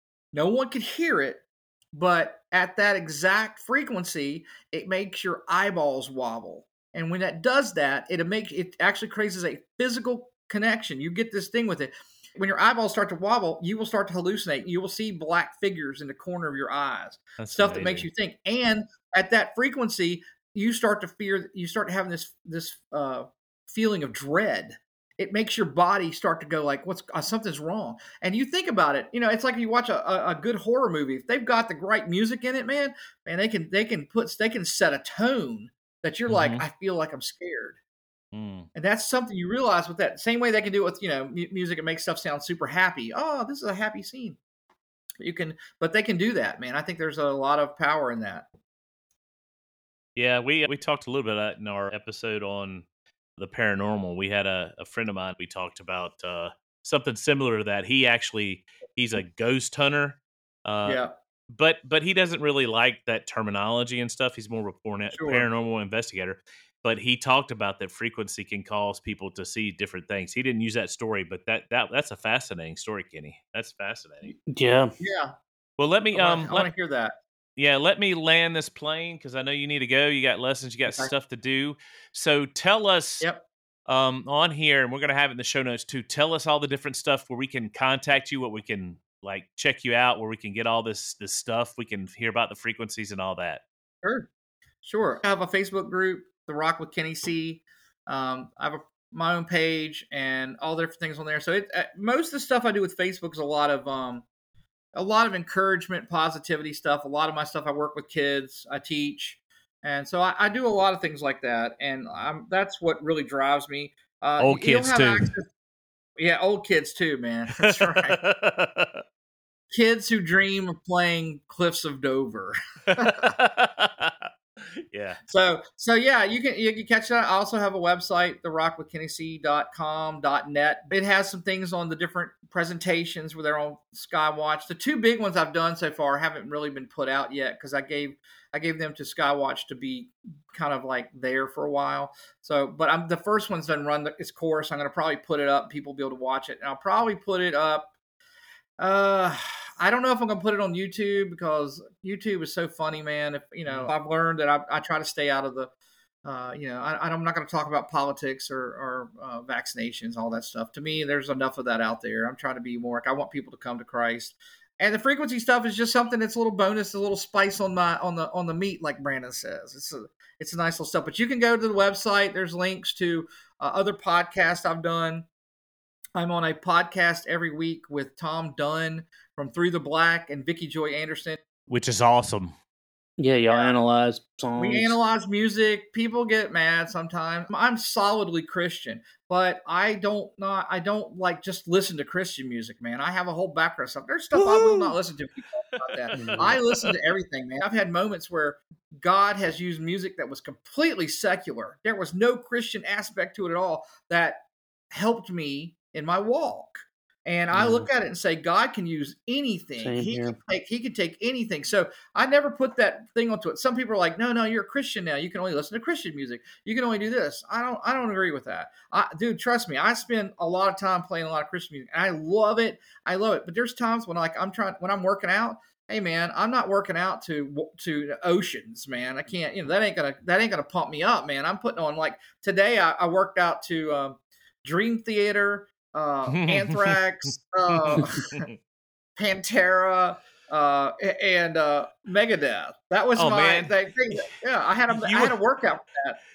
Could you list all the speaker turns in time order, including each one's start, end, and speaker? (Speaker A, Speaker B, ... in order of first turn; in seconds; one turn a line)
Speaker A: 0.3-37.8
Speaker B: 17.4-18.1
Speaker B: 36.3-36.6
Speaker B: 38.3-38.7
Speaker A: 38.8-44.4
Speaker A: 45.2-48.5
Speaker B: 50.2-52.9
Speaker B: 53.4-74.3
Speaker A: 60.9-61.1
Speaker A: 65.1-65.5
Speaker C: 74.5-74.9
Speaker A: 75.0-75.3
Speaker B: 75.8-76.7
Speaker A: 76.1-77.1
Speaker B: 77.6-83.3
Speaker B: 83.9-93.6
Speaker A: 94.0-94.3
Speaker A: 94.8-104.2
Speaker A: 105.0-115.5
Speaker B: 114.4-115.3
Speaker A: 116.2-118.2
Speaker B: 117.6-119.0
Speaker A: 119.7-123.3
Speaker B: 122.9-125.2
Speaker A: 125.3-147.9
Speaker A: 148.8-155.7
Speaker B: 153.7-153.9
Speaker A: 156.2-175.3
Speaker A: 176.2-181.4
Speaker B: 181.7-182.6
Speaker C: 183.2-185.0
Speaker A: 183.5-183.8
Speaker A: 184.6-238.4
Speaker C: 194.3-194.9
Speaker B: 195.7-197.0
Speaker C: 196.2-196.6
Speaker C: 207.5-207.9
Speaker C: 209.8-210.4
Speaker B: 236.3-238.6
Speaker A: 239.2-246.2
Speaker B: 243.2-244.3
Speaker B: 244.9-245.4